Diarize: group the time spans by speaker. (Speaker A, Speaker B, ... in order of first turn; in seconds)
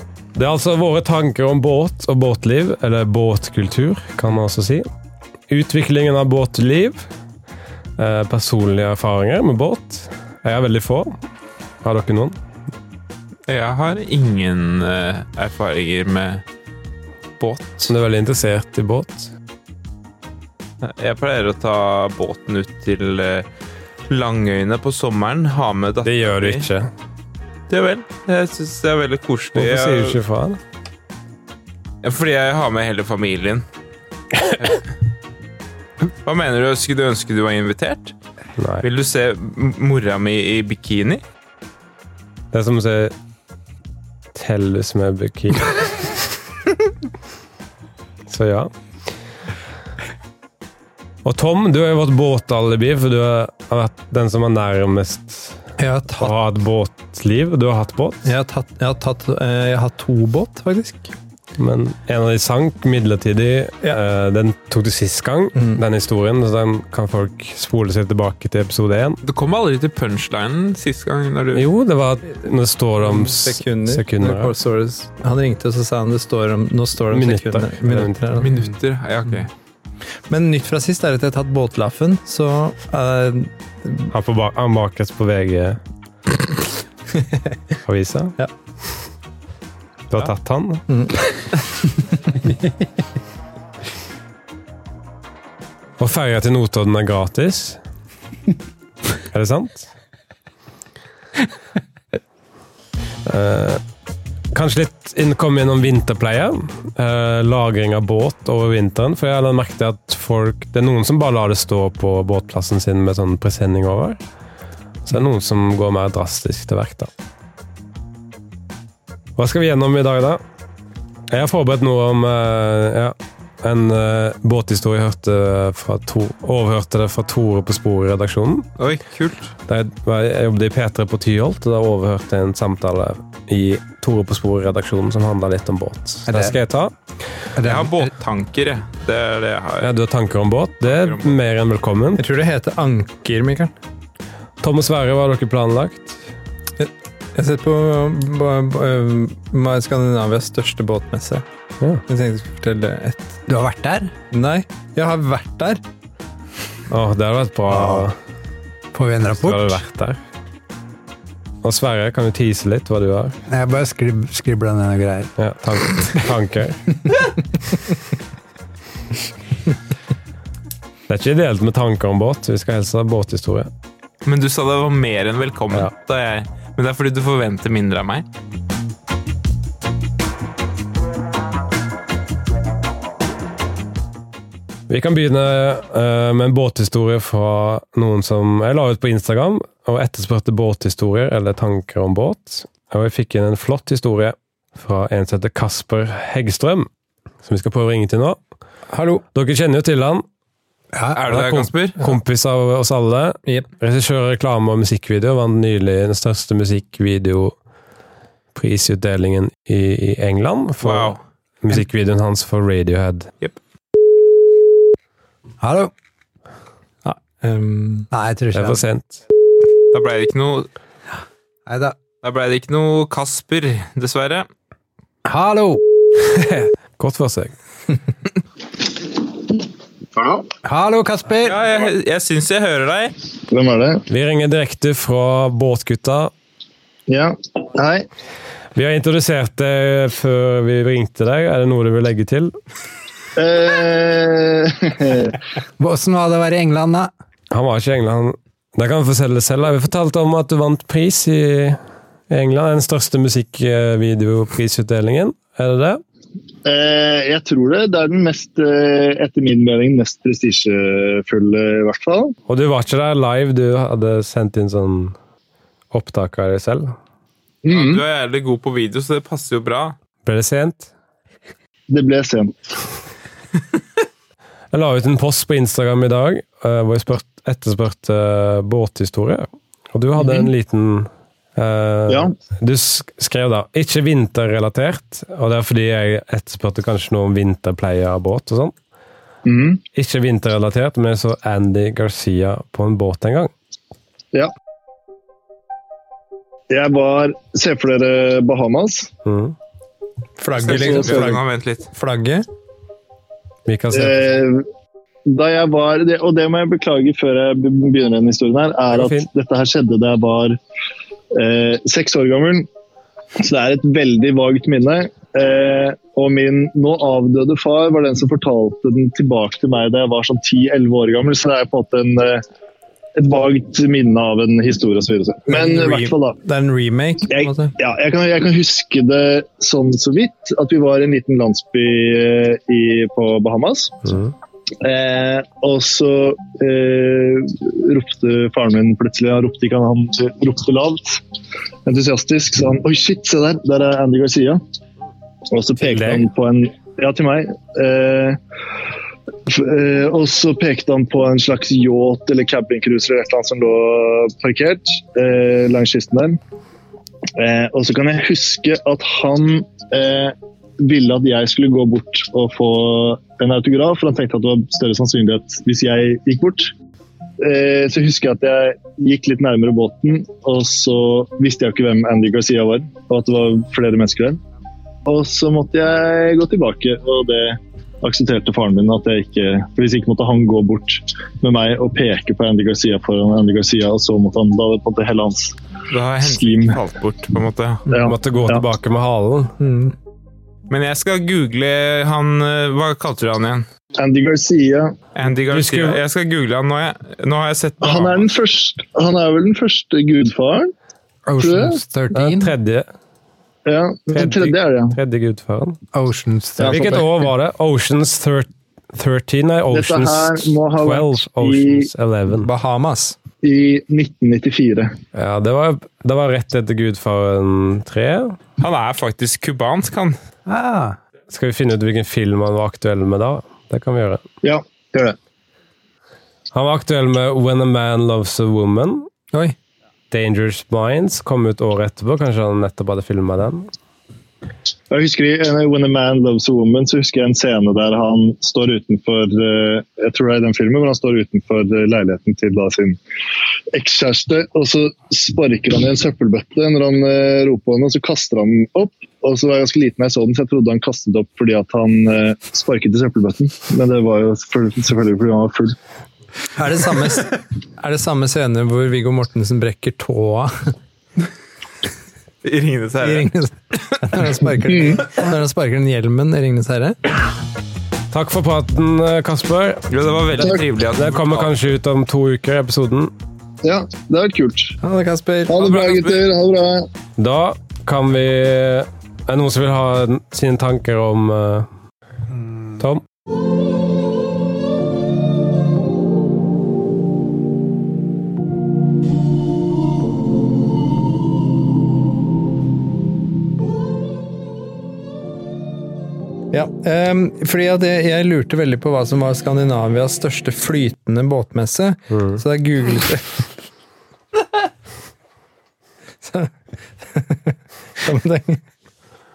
Speaker A: 0.3-4.9, 5.5-7.0, 8.0-11.2, 11.8-12.4, 17.9-19.3, 26.0-26.9, 29.6-30.6, 38.6-38.9, 42.5-43.1, 44.3-46.2, 48.3-48.7, 51.2-55.6, 56.2-58.3, 61.6-69.2, 71.5-74.5, 77.1-78.2, 84.1-85.8, 87.8-88.4, 90.1-90.8, 96.0-97.8, 99.3-99.9, 103.2-103.8, 104.5-114.2, 115.0-117.1, 119.4-120.4, 121.3-128.7, 129.7-136.9, 139.8-142.2, 144.6-146.2, 156.9-158.2, 159.4-160.2, 161.6-163.4, 165.4-166.8, 171.1-173.7, 184.9-196.9, 197.4-198.4, 199.3-200.3, 201.3-207.6, 208.5-213.3, 218.5-219.2, 227.0-227.6, 234.1-236.3, 238.8-242.5, 247.5-256.0, 262.5-265.2, 265.9-267.0, 270.2-270.9, 274.7-288.8, 289.9-293.5, 299.2-299.6, 303.7-304.4, 308.9-309.3, 334.1-334.3, 345.8-346.3, 388.0-389.6, 395.5-396.0, 402.1-402.9, 404.1-405.8, 406.6-412.5, 415.1-418.4, 421.3-424.2, 426.5-429.1, 430.1-433.7, 468.1-473.1, 477.2-481.7, 502.1-502.4
Speaker B: 13.5-16.4, 17.4-17.9, 20.8-23.5, 24.1-26.6, 27.7-30.2, 32.0-33.6, 34.4-34.9, 36.2-38.1, 38.8-41.2, 69.2-71.7, 78.4-79.5, 128.8-129.5, 137.6-139.9, 140.8-141.4, 174.2-178.2, 201.1-202.0, 210.8-211.2, 219.9-220.7, 222.2-224.5, 231.4-233.2, 267.7-269.9, 300.6-301.9, 385.9-387.9, 390.7-393.7, 395.1-398.3, 418.6-420.2, 462.4-463.3, 469.9-471.6, 475.6-476.2
Speaker C: 55.8-56.3, 58.2-61.1, 65.5-65.8, 73.0-78.5, 80.3-84.1, 90.9-91.2, 142.2-143.7, 146.8-151.4, 152.1-153.4, 154.3-155.8, 198.9-199.2, 217.1-218.1, 300.4-302.5, 325.5-327.8, 389.6-389.9, 412.4-413.2, 456.6-460.7, 463.0-467.0, 474.8-475.6, 496.5-503.5, 506.2-508.6
Speaker D: 136.3-136.6, 137.6-138.1, 153.5-154.1, 157.7-158.1, 158.9-159.8, 163.5-165.3, 200.9-201.3, 215.6-215.9, 218.1-218.8, 221.7-222.0, 225.3-225.8, 230.6-231.6, 245.8-247.1, 401.3-402.5, 405.9-407.1, 420.5-421.0, 482.3-482.8
Speaker E: 230.2-230.4, 233.5-234.0, 237.1-238.1, 243.4-245.4, 256.6-262.4, 267.6-268.0, 271.9-272.6, 289.5-289.8, 296.7-299.1, 300.7-301.3, 303.9-304.7, 305.3-310.6, 311.3-312.7, 313.4-322.4, 323.2-326.4, 327.3-333.9, 334.8-341.2, 341.9-344.6, 345.5-348.4, 349.5-356.4, 357.4-366.7, 367.4-374.4, 375.1-385.6, 386.2-386.8, 387.9-388.6, 394.0-395.0, 397.8-400.7, 401.4-401.8, 403.7-405.0, 406.6-407.0, 409.7-411.9, 413.4-414.9, 424.4-425.2, 434.9-443.0, 443.7-455.8, 464.7-465.0, 473.6-474.8, 475.5-476.9